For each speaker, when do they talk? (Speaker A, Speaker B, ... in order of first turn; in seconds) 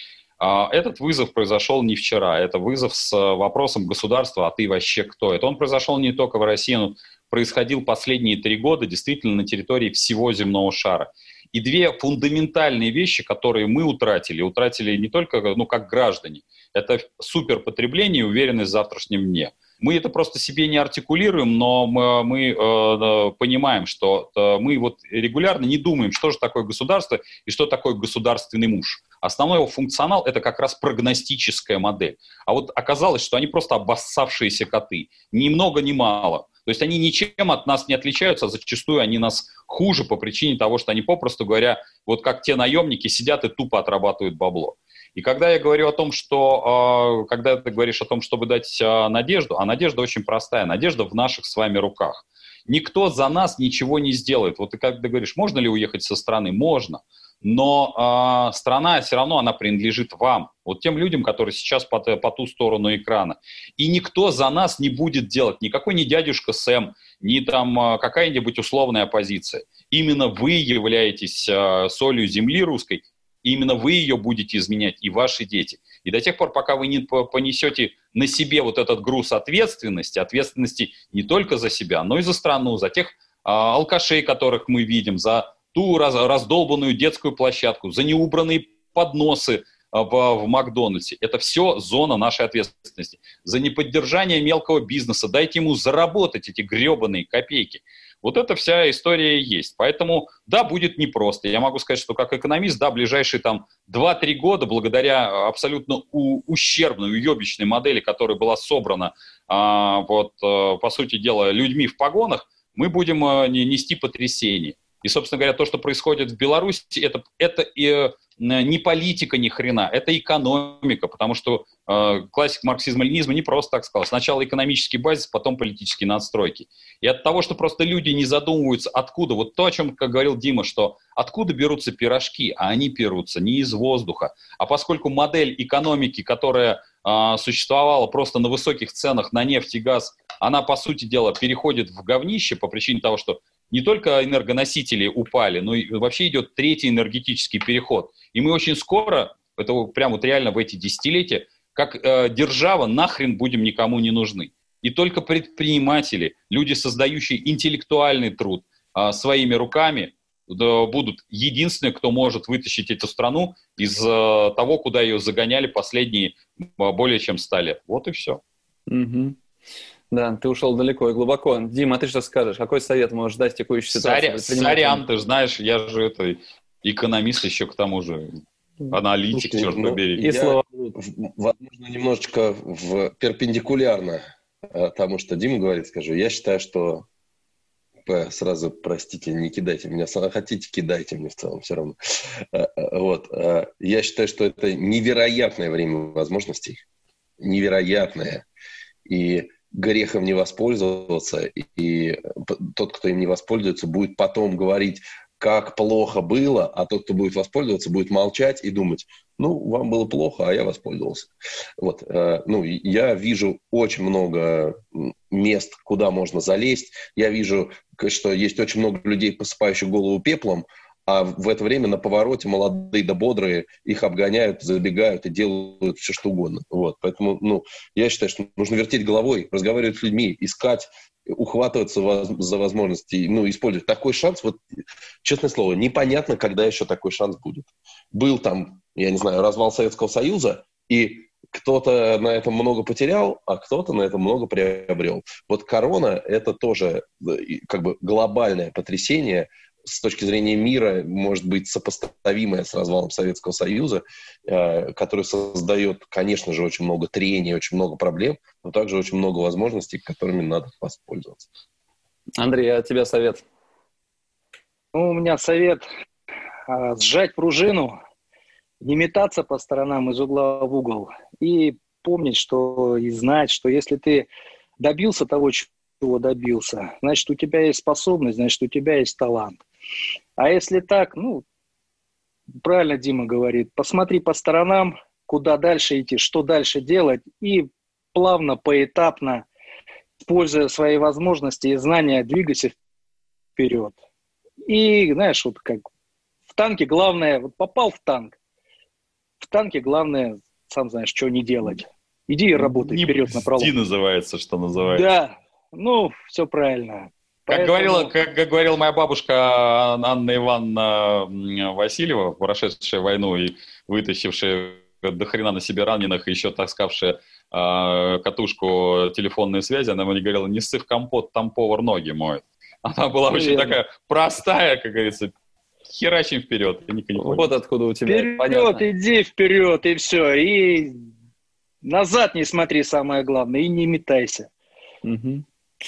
Speaker A: 0.4-168.4, 173.9-180.3, 302.5-305.1, 307.5-325.3, 325.9-327.5
Speaker B: 168.9-169.4, 170.1-175.0, 180.2-180.9, 262.4-263.4, 327.1-328.8, 335.0-335.4
Speaker C: 179.3-187.1, 188.1-196.8, 197.4-198.4, 199.1-234.6, 235.2-261.5
Speaker D: 264.9-265.9, 266.7-267.9, 268.8-274.3, 274.8-279.6, 280.4-281.4, 282.6-289.4, 290.2-292.8, 293.6-294.0, 294.7-295.8, 296.5-298.4, 299.4-303.7, 304.9-308.1, 323.3-323.8, 328.1-330.9, 331.8-334.5